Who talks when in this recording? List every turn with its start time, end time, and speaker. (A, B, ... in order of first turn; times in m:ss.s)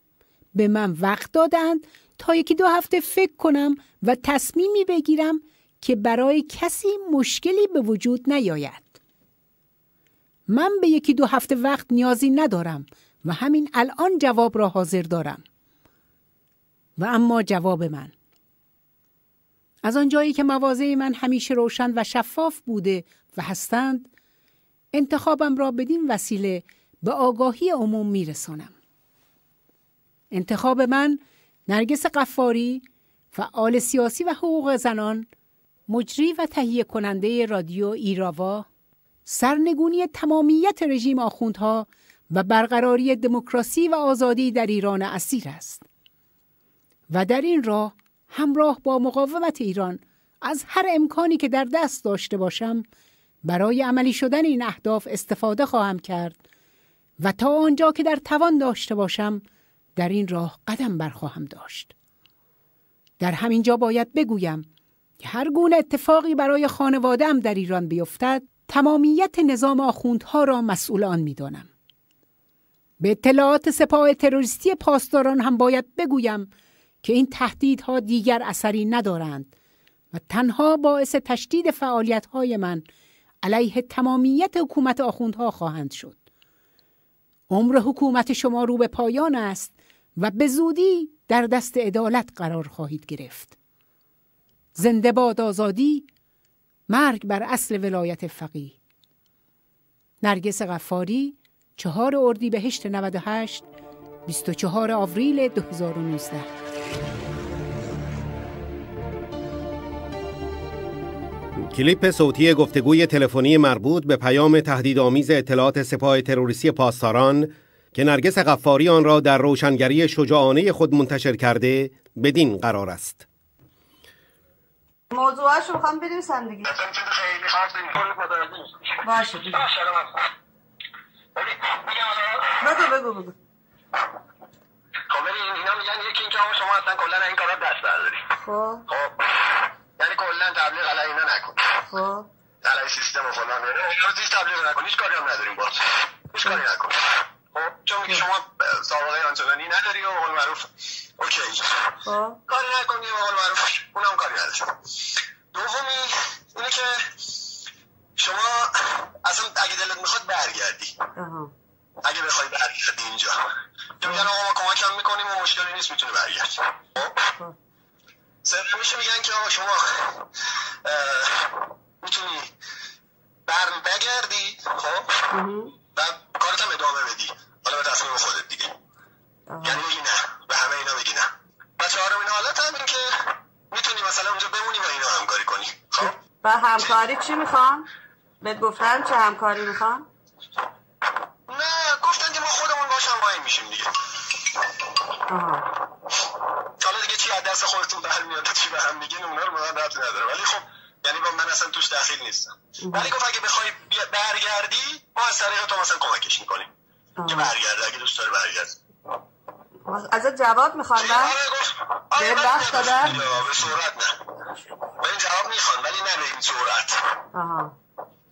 0:00.5-0:09.0 A
0:10.5-0:15.4 A
0:17.0-0:18.1 A
0:19.8-0:24.1 A
0:24.9-0:28.7 A
0:30.3-0:35.3 A
0:35.9-0:38.7 A
0:39.2-0:45.8 A
0:47.1-0:52.8 A
0:53.4-0:56.4 A
0:57.2-0:59.4 A
1:00.0-1:01.9 A
1:03.2-1:04.7 A
1:05.2-1:11.7 A
1:13.0-1:16.5 A
1:17.0-1:19.5 A
1:20.1-1:22.8 A
1:23.4-1:26.2 A
1:27.5-1:33.5 A
1:34.7-1:36.1 A
1:36.9-1:38.8 A
1:40.2-1:43.6 A
1:44.2-1:46.5 A
1:51.7-2:03.2 B
2:05.1-2:06.7 C
2:06.6-2:10.2 D
2:09.0-2:09.6 C
2:11.4-2:12.6 D
2:12.6-2:13.3 C
2:15.1-2:18.3 D
2:18.4-2:18.8 C
2:18.9-2:21.8 D
2:21.9-2:22.3 C
2:22.6-2:27.0 D
2:27.5-2:31.6 D
2:32.0-2:32.4 C
2:32.5-2:34.7 D
2:35.5-2:37.0 D
2:38.2-2:41.0 D
2:41.2-2:41.5 C
2:42.0-2:43.4 D
2:44.0-2:47.3 D
2:47.0-2:47.5 C
2:48.4-2:50.2 D
2:50.8-2:52.5 D
2:53.5-2:55.3 D
2:55.3-2:55.8 C
2:55.9-2:58.7 D
2:59.5-2:59.8 C
2:59.6-3:07.0 D
3:06.0-3:07.9 C
3:08.4-3:10.1 C
3:11.5-3:13.9 D
3:15.3-3:15.6 C
3:16.8-3:26.7 D
3:22.8-3:23.1 C
3:27.2-3:27.5 C
3:27.2-3:28.8 D
3:29.8-3:31.4 C
3:31.0-3:34.2 D
3:32.1-3:33.7 C
3:35.0-3:37.0 D
3:37.3-3:37.7 C